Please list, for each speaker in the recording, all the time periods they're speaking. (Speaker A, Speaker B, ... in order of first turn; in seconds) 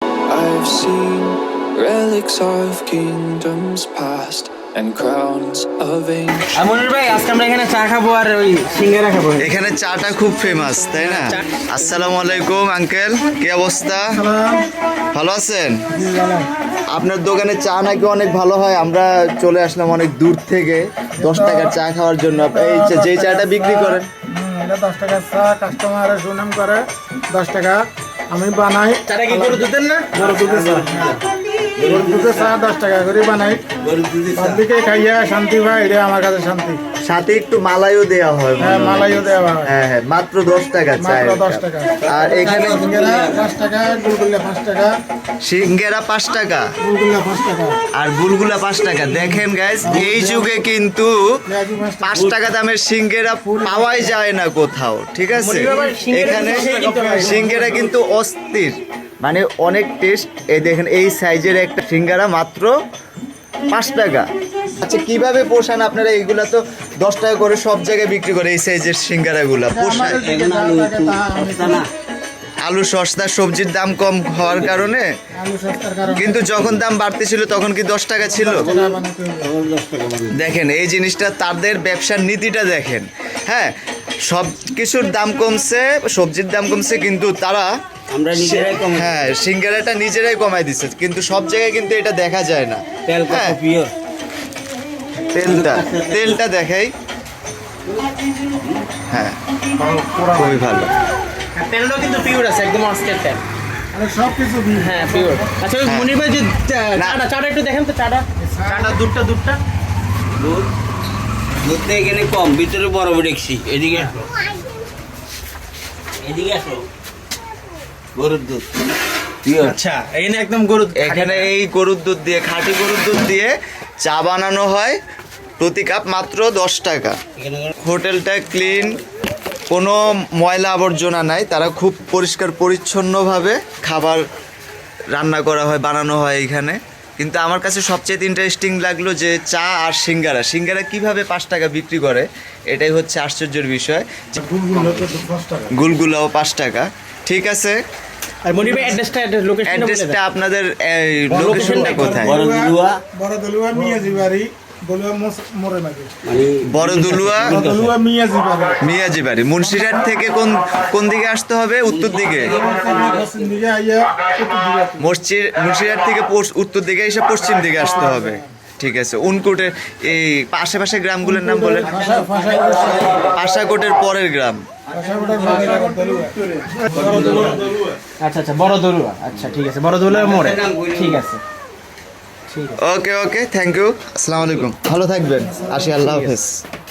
Speaker A: 0.3-6.6, 9.7-12.6
Speaker B: 6.5-9.5, 11.1-11.5, 29.1-30.9, 55.4-57.5, 101.6-103.4, 104.8-109.6, 119.5-121.5, 148.4-150.2, 151.4-152.2, 178.2-181.4, 182.5-182.8, 185.9-186.3
Speaker C: 9.4-14.2, 15.1-15.8, 16.9-24.1, 37.0-42.8, 45.4-46.7, 48.0-51.4, 52.0-62.7, 63.7-64.3, 64.8-70.2, 72.7-75.1, 76.2-78.7, 80.3-83.7, 84.3-87.7, 88.3-93.6, 95.3-96.9, 99.1-99.4, 100.3-100.9, 105.8-106.1, 121.0-123.5, 124.0-125.0, 125.6-127.2, 127.8-129.0, 129.7-134.2, 135.1-144.1, 145.7-147.8, 149.7-152.4, 156.7-157.6, 158.8-162.6, 165.0-171.9, 173.3-174.6, 182.8-186.6
Speaker D: 14.1-14.6, 15.9-16.5, 21.2-21.8, 22.3-27.8, 28.3-31.2, 31.8-33.8, 34.3-36.8, 38.6-39.7, 41.0-44.9, 46.8-47.8, 49.8-50.6, 51.5-52.2, 53.4-54.1, 55.7-57.9, 69.7-71.8, 75.4-76.5, 78.2-79.5, 99.8-100.5, 103.9-105.5, 108.4-109.0, 144.3-145.9, 148.6-149.0, 151.5-156.1, 157.3-158.8, 162.5-165.1, 167.8-168.4, 171.2-173.2, 174.9-177.7, 185.5-185.9
Speaker E: 30.2-31.1, 31.8-32.5, 33.8-34.6, 42.1-43.4, 52.1-52.4, 70.1-71.8, 74.6-74.9, 78.6-80.4, 88.1-89.3, 93.1-93.9, 95.4-96.4, 98.4-98.8, 110.4-110.7, 111.6-114.2, 116.2-116.8, 118.2-118.7, 119.5-119.8, 127.4-127.7, 151.3-151.6, 152.2-153.0, 156.2-157.9, 161.8-163.3, 172.0-173.3, 177.1-177.5, 180.1-181.2